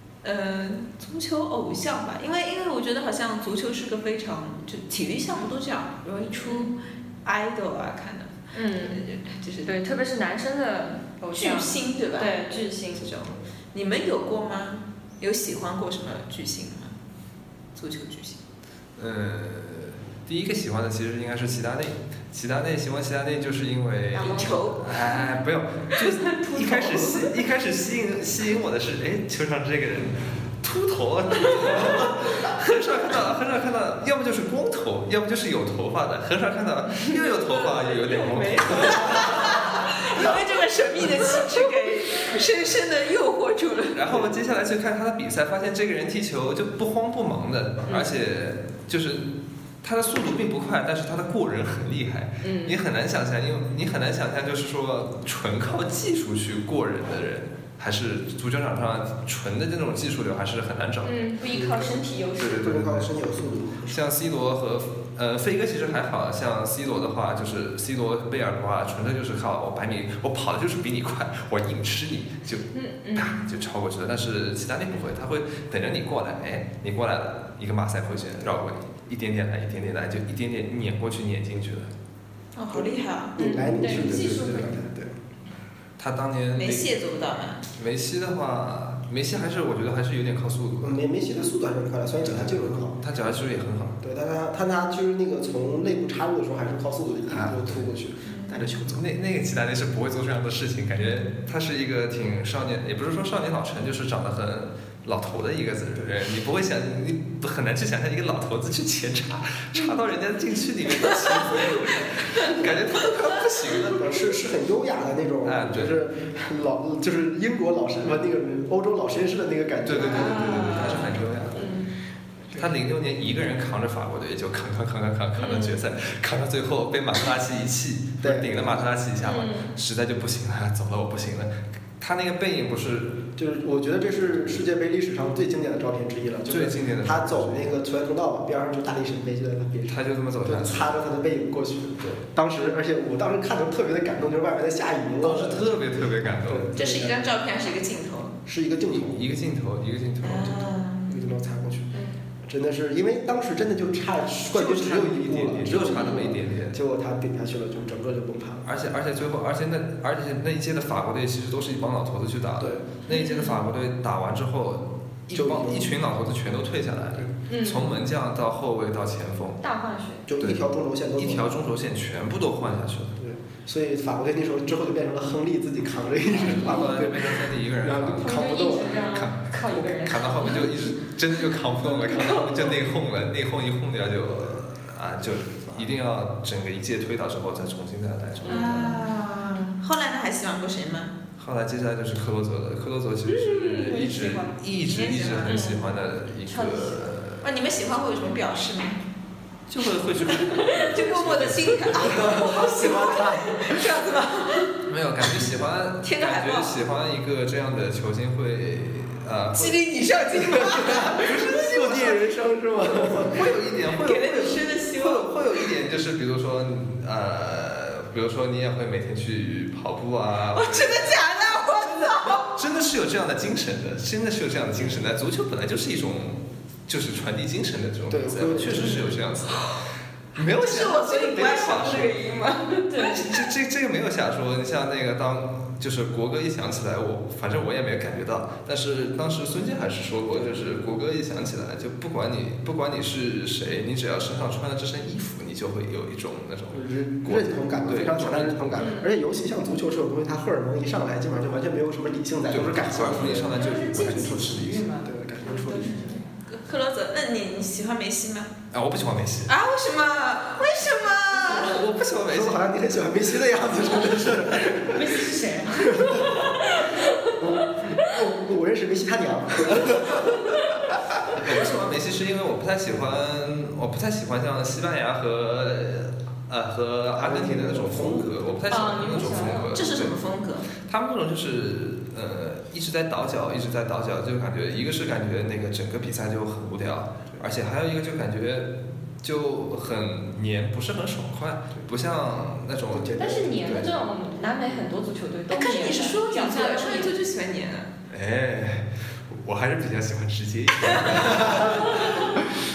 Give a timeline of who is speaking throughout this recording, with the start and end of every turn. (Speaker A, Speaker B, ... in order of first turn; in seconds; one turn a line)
Speaker A: 0.2-9.7
Speaker B: 6.4-6.7
Speaker B: 8.5-9.0
Speaker B: 9.7-13.1
Speaker A: 11.3-12.4
Speaker A: 13.0-17.0
Speaker A: 17.7-18.4
Speaker C: 19.0-39.5
Speaker A: 24.1-24.9
Speaker A: 37.4-44.0
Speaker C: 43.9-61.6
Speaker B: 52.4-52.8
Speaker B: 61.0-62.7
Speaker C: 62.4-63.2
Speaker D: 62.4-64.0
Speaker C: 63.9-81.9
Speaker B: 72.7-73.4
Speaker A: 82.5-83.4
Speaker D: 82.7-85.2
Speaker B: 83.4-84.8
Speaker C: 83.8-84.7
Speaker C: 86.0-87.0
Speaker A: 86.5-87.6
Speaker C: 87.7-91.0
Speaker D: 90.8-93.0
Speaker C: 92.2-94.0
Speaker D: 94.0-99.0
Speaker C: 97.3-97.9
Speaker A: 98.2-98.6
Speaker C: 98.8-114.2
Speaker D: 113.8-121.1
Speaker C: 115.4-116.0
Speaker C: 119.8-121.7
Speaker B: 120.0-121.0
Speaker B: 121.5-121.9
Speaker C: 122.5-133.3
Speaker B: 125.4-125.8
Speaker D: 128.2-128.9
Speaker B: 129.2-129.7
Speaker D: 133.4-147.2
Speaker C: 136.5-137.7
Speaker C: 139.9-140.9
Speaker C: 145.2-146.7
Speaker A: 146.7-148.3
Speaker D: 148.4-149.2
Speaker C: 148.9-150.6
Speaker A: 150.2-151.1
Speaker D: 151.1-158.7
Speaker C: 154.5-156.8
Speaker C: 158.7-169.6
Speaker D: 162.6-162.8
Speaker B: 163.1-163.5
Speaker D: 165.3-165.9
Speaker B: 167.5-167.9
Speaker B: 169.6-170.2
Speaker D: 170.3-171.5
Speaker C: 171.1-173.2
Speaker D: 173.2-179.1
Speaker C: 176.4-189.0
Speaker B: 178.2-180.7
Speaker B: 182.0-182.6
Speaker B: 188.4-189.0
Speaker A: 188.4-191.1
Speaker C: 191.4-197.4
Speaker B: 193.3-195.8
Speaker A: 195.2-195.5
Speaker B: 196.4-197.0
Speaker A: 197.4-199.0
Speaker C: 199.7-202.3
Speaker B: 200.5-200.9
Speaker A: 200.6-204.7
Speaker D: 202.0-203.8
Speaker C: 204.8-209.8
Speaker A: 206.0-206.8
Speaker A: 209.5-211.3
Speaker D: 210.7-213.4
Speaker C: 210.9-212.3
Speaker C: 213.0-229.7
Speaker A: 213.9-215.3
Speaker A: 220.5-222.5
Speaker D: 228.1-228.9
Speaker A: 229.0-229.8
Speaker C: 230.3-232.2
Speaker A: 230.4-233.2
Speaker B: 232.9-233.3
Speaker C: 233.0-248.9
Speaker D: 246.7-254.4
Speaker B: 248.8-249.1
Speaker C: 252.5-254.9
Speaker B: 253.3-256.4
Speaker D: 255.0-256.0
Speaker A: 255.8-258.5
Speaker C: 258.7-259.5
Speaker A: 259.5-261.8
Speaker C: 261.4-262.7
Speaker D: 262.2-270.6
Speaker B: 264.9-267.3
Speaker C: 271.3-280.2
Speaker D: 277.1-278.6
Speaker B: 278.7-279.9
Speaker A: 279.7-280.7
Speaker C: 280.8-293.3
Speaker D: 292.9-293.9
Speaker B: 293.2-297.1
Speaker A: 295.5-297.9
Speaker C: 298.1-302.4
Speaker B: 301.7-302.3